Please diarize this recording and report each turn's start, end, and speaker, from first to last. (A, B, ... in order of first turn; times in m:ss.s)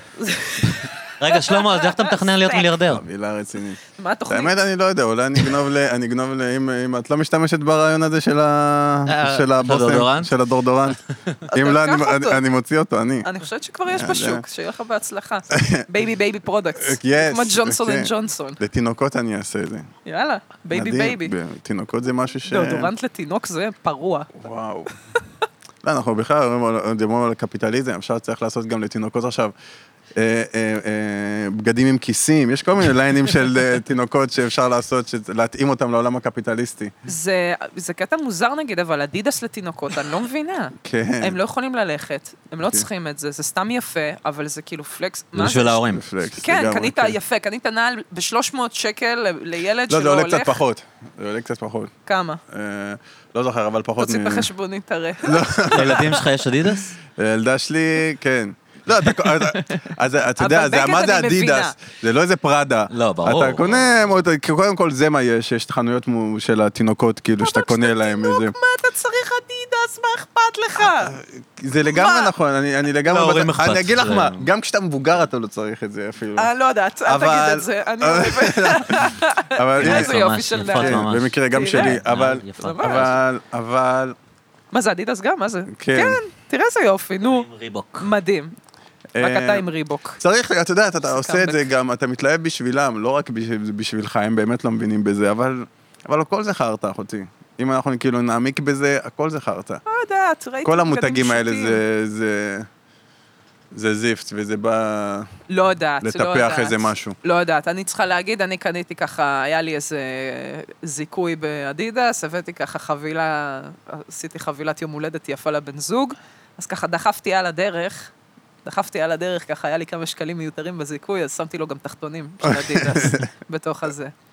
0:00.2-0:02.7 A
0:01.1-0:03.0 B
0:02.8-0:11.0 C
0:03.9-0:04.5 A
0:09.1-0:10.3 B
0:11.5-0:12.4 A
0:11.5-0:13.3 C
0:13.2-0:18.6 A
0:13.9-0:14.4 C
0:15.5-0:15.8 C
0:16.8-0:19.9 C
0:20.0-0:21.3 A
0:20.7-0:22.9 C
0:22.4-0:24.3 A
0:24.4-0:24.9 C
0:25.8-0:29.5 C
0:30.2-0:36.9 C
0:37.0-0:45.8 A
0:40.8-0:41.4 C
0:45.4-0:46.0 B
0:45.9-0:47.2 C
0:46.4-0:50.6 A
0:49.9-0:51.9 C
0:52.0-0:52.4 A
0:52.5-0:54.5 C
0:54.0-0:56.2 A
0:55.2-0:56.2 C
0:55.7-0:56.9 B
0:57.2-1:08.5 C
0:59.3-0:59.9 A
1:00.4-1:01.7 A
1:02.9-1:03.9 B
1:07.4-1:11.2 A
1:10.8-1:16.5 C
1:11.8-1:12.3 A
1:13.0-1:14.4 B
1:16.4-1:23.2 A
1:17.0-1:24.2 C
1:19.8-1:23.1 B
1:24.7-1:27.4 A
1:25.7-1:26.2 C
1:27.2-1:28.1 B
1:28.0-1:28.5 A
1:29.1-1:29.6 C
1:29.2-1:30.2 A
1:30.2-1:39.8 C
1:31.1-1:31.7 A
1:39.8-1:41.8 A
1:40.6-1:42.7 C
1:43.7-1:45.3 C
1:45.5-1:58.1 A
1:46.0-1:47.2 C
1:58.6-2:04.1 A
2:02.4-2:03.3 C